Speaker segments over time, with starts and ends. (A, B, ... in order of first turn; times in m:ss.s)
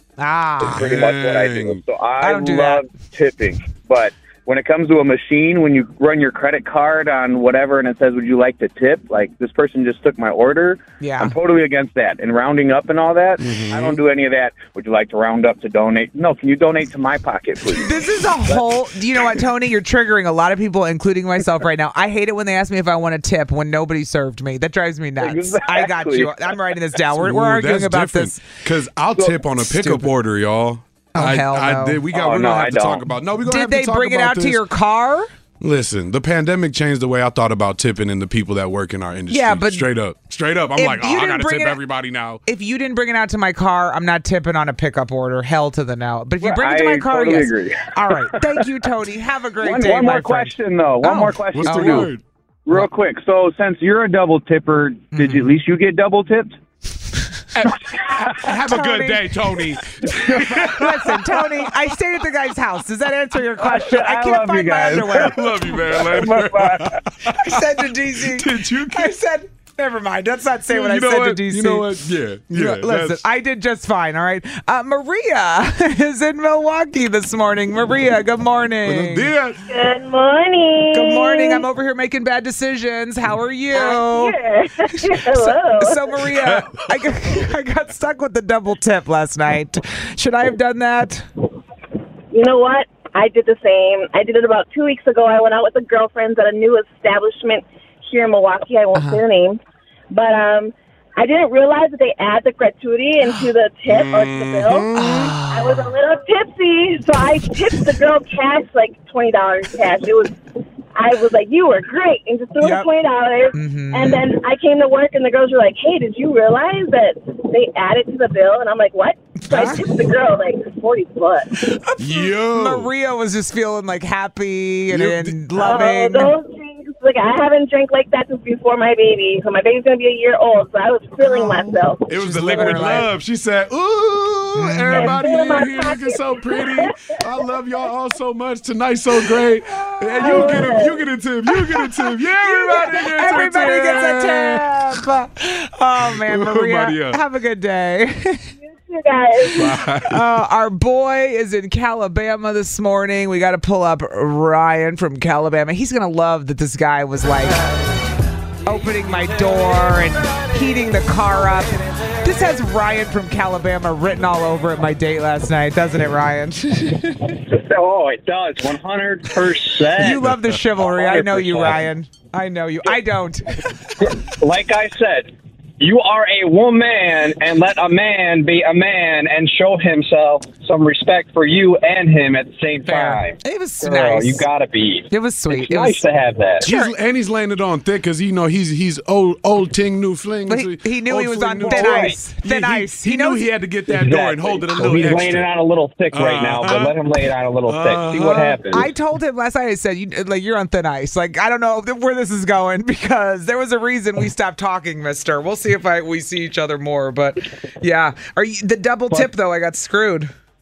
0:00.2-0:00.9 A
0:00.6-0:01.8 B
0:00.7-0:18.0 C
0:02.2-0:02.8 A
0:11.0-0:11.3 A
0:13.4-0:14.0 B
0:17.7-0:28.5 A
0:25.2-0:26.3 C
0:27.1-0:34.6 B
0:29.7-0:30.1 A
0:31.1-0:32.0 A
0:32.1-0:33.0 C
0:33.4-0:35.3 A
0:35.6-0:42.4 B
0:39.3-0:39.9 A
0:40.8-0:41.8 A
0:42.4-0:52.1 A
0:46.4-0:48.5 C
0:49.6-0:52.1 C
0:51.5-0:52.2 B
0:52.7-0:56.6 C
0:55.1-0:55.5 A
0:57.5-1:01.7 B
0:58.4-0:59.4 A
1:00.1-1:05.6 A
1:00.2-1:00.6 C
1:03.6-1:07.0 C
1:05.2-1:09.2 B
1:07.2-1:12.0 A
1:10.7-1:13.2 B
1:12.5-1:19.3 A
1:18.8-1:19.6 B
1:19.6-1:21.6 D
1:20.9-1:24.4 A
1:23.7-1:26.2 D
1:24.9-1:31.2 A
1:26.3-1:27.1 B
1:32.3-1:39.6 D
1:38.9-1:39.2 A
1:40.1-1:50.4 D
1:43.9-1:45.4 B
1:44.9-1:45.9 A
1:50.9-2:01.6 D
1:52.6-1:52.9 A
1:53.5-1:54.3 A
1:59.4-1:59.9 A
2:01.6-2:06.3 A
2:02.0-2:02.9 B
2:04.9-2:05.4 B
2:05.6-2:12.9 D
2:11.3-2:13.1 A
2:12.1-2:24.8 B
2:14.5-2:15.2 A
2:14.9-2:17.2 D
2:19.8-2:20.8 A
2:20.2-2:21.0 D
2:21.5-2:28.5 A
2:26.0-2:27.2 B
2:28.6-2:29.7 D
2:29.5-2:30.4 B
2:30.1-2:37.6 A
2:38.6-2:47.4 A
2:47.3-2:51.8 E
2:49.9-2:54.1 A
2:54.0-3:06.6 E
3:02.8-3:04.4 A
3:05.1-3:06.0 A
3:06.6-3:06.9 A
3:06.6-3:15.5 B
3:10.5-3:13.4 A
3:11.6-3:12.1 E
3:13.9-3:18.9 E
3:16.1-3:18.6 B
3:18.7-3:30.3 A